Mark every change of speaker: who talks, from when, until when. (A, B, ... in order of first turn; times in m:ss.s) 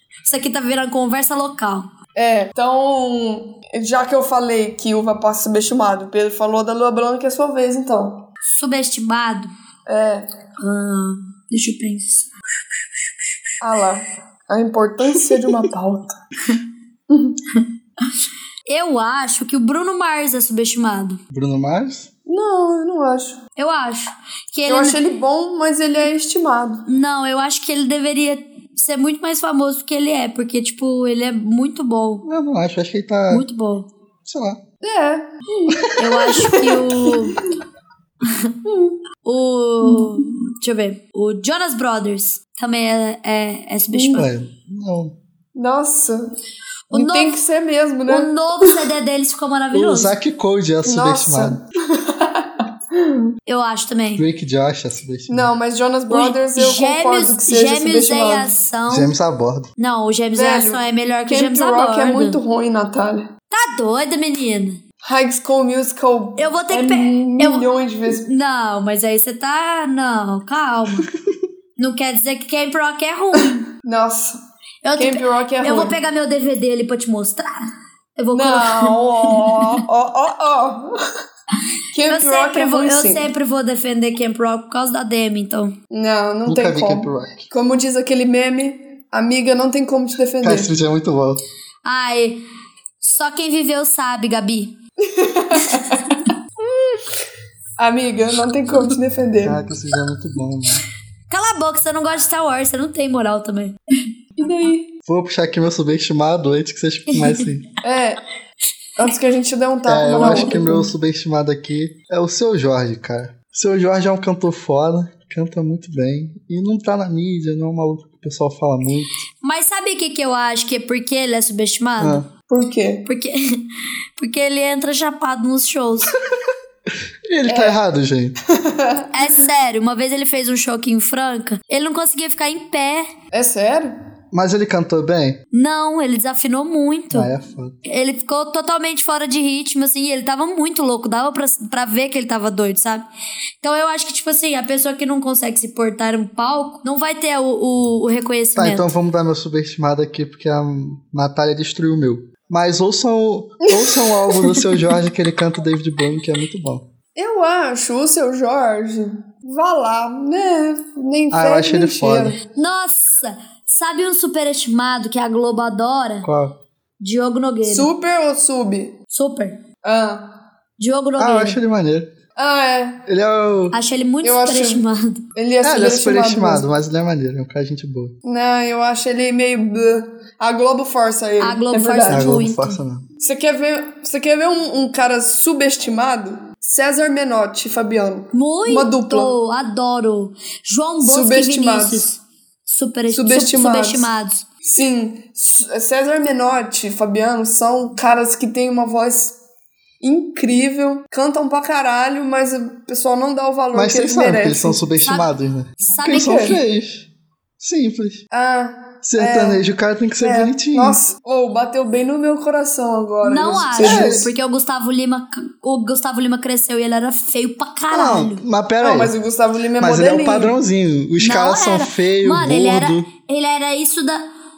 0:00.2-0:01.9 A
0:02.2-0:08.3 B
0:08.5-0:09.5 A
0:09.9-0:10.3 B
0:10.6-0:12.3 A
0:13.6-0:16.2 B
0:17.1-0:17.4 B
0:18.7-0:21.2 A
0:21.3-0:22.1 C
0:22.3-0:23.4 B
0:23.6-0:25.0 A
0:24.7-0:26.8 B
0:26.9-0:32.2 A
0:32.2-0:33.5 C
0:33.3-0:33.9 A
0:34.3-0:34.6 C
0:34.8-0:37.2 B
0:35.7-0:36.0 C
0:36.0-0:37.4 A
0:39.2-0:44.3 A
0:43.9-0:44.2 B
0:44.1-0:45.1 C
0:45.6-0:46.3 B
0:46.9-0:47.4 A
0:46.9-0:48.8 B
0:48.1-0:50.1 A
0:49.7-0:51.6 C
0:50.8-0:53.3 B
0:53.5-0:54.2 A
0:54.2-0:55.5 C
0:55.3-0:58.5 B
0:56.1-0:59.1 A
0:58.9-0:59.7 C
0:59.8-1:02.4 A
1:00.3-1:03.3 B
1:03.5-1:04.8 A
1:05.0-1:08.3 B
1:06.4-1:11.1 A
1:11.8-1:13.7 A
1:13.8-1:14.4 B
1:14.8-1:19.7 A
1:15.0-1:16.0 B
1:18.3-1:21.0 B
1:21.9-1:23.3 B
1:22.1-1:25.8 A
1:25.9-1:30.7 B
1:26.5-1:27.5 C
1:30.4-1:31.4 C
1:31.8-1:32.4 A
1:33.0-1:34.7 A
1:35.0-1:36.0 B
1:36.6-1:37.2 B
1:37.8-1:39.6 B
1:39.4-1:40.8 C
1:41.3-1:43.8 A
1:44.4-1:44.9 B
1:45.1-1:47.6 C
1:47.8-1:48.2 B
1:49.0-1:50.8 B
1:49.9-1:59.2 C
1:50.1-1:50.8 A
1:59.4-2:02.2 A
2:02.5-2:03.1 B
2:03.1-2:03.6 A
2:04.2-2:06.2 A
2:07.3-2:08.4 C
2:07.5-2:07.8 B
2:08.6-2:09.1 B
2:09.1-2:13.1 A
2:13.3-2:13.9 B
2:14.3-2:15.4 C
2:15.5-2:17.3 A
2:17.1-2:17.8 C
2:17.8-2:23.1 A
2:23.6-2:28.9 A
2:28.6-2:36.8 C
2:33.6-2:34.6 B
2:37.2-2:42.4 B
2:41.3-2:42.4 C
2:42.6-2:46.3 A
2:46.2-2:46.6 C
2:47.0-2:47.9 A
2:47.6-2:49.0 B
2:49.1-2:49.6 A
2:49.8-2:50.3 B
2:50.8-2:51.6 A
2:51.2-2:52.1 C
2:52.4-2:53.0 B
2:53.1-2:53.8 C
2:53.7-2:55.2 A
2:54.2-2:54.8 B
2:55.4-2:56.7 B
2:55.6-2:58.1 C
2:58.2-3:02.3 B
3:01.4-3:02.8 A
3:02.1-3:03.1 C
3:03.2-3:09.3 B
3:08.3-3:14.4 A
3:11.0-3:12.0 B
3:13.1-3:14.1 B
3:14.6-3:19.4 B
3:20.0-3:24.8 B
3:23.7-3:27.1 C
3:25.0-3:25.3 A
3:25.8-3:26.6 A
3:26.1-3:26.6 B
3:27.6-3:28.2 C
3:28.3-3:29.6 B
3:29.0-3:31.0 C
3:30.2-3:34.3 B
3:33.2-3:38.4 A
3:33.8-3:34.3 C
3:37.9-3:39.1 C
3:38.8-3:40.6 B
3:39.8-3:43.1 C
3:41.2-3:44.2 A